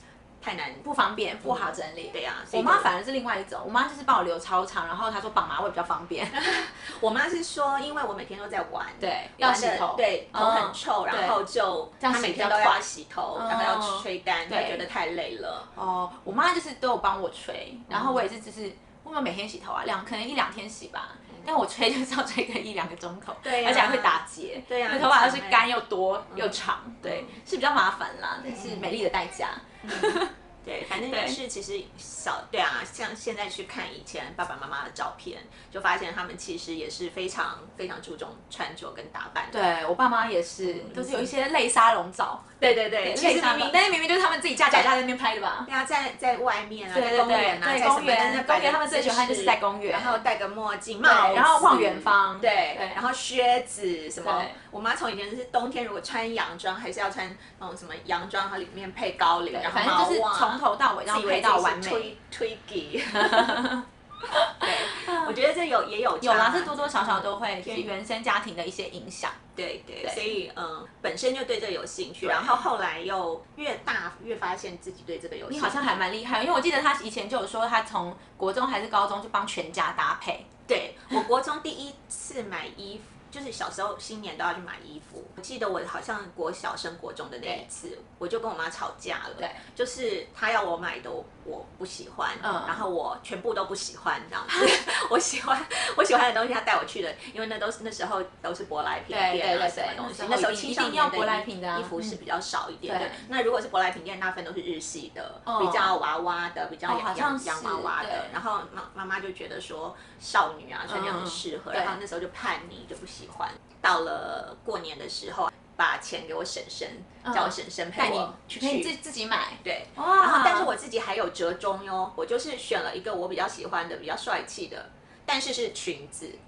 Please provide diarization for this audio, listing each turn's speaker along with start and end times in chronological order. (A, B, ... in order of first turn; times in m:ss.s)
0:00.4-0:00.9 A
0:00.8-0:06.4 B
0:01.4-0:02.9 A
0:06.3-0:15.7 A
0:09.0-0:11.4 B
0:12.0-0:12.8 B
0:13.4-0:14.9 B
0:15.8-0:30.3 B
0:17.9-0:18.2 A
0:23.4-0:25.7 A
0:26.3-0:27.4 A
0:28.6-0:29.0 A
0:29.8-0:39.6 A
0:30.9-0:31.4 B
0:39.5-0:45.7 B
0:40.6-0:41.3 A
0:42.6-0:43.8 A
0:45.7-1:03.6 A
0:46.9-0:50.2 B
0:51.0-0:53.0 B
0:54.2-0:54.6 B
0:59.5-1:02.1 B
1:03.1-1:05.4 B
1:04.6-1:07.9 A
1:06.2-1:09.4 B
1:09.6-1:16.0 A
1:10.0-1:10.3 B
1:12.2-1:12.6 B
1:15.5-1:20.5 B
1:20.7-1:58.9 A
1:32.4-1:32.8 B
1:39.1-1:42.1 B
1:42.9-1:43.3 B
1:45.5-1:46.0 B
1:46.9-1:48.4 B
1:50.9-1:52.0 B
1:57.2-2:00.7 B
1:59.6-2:06.4 A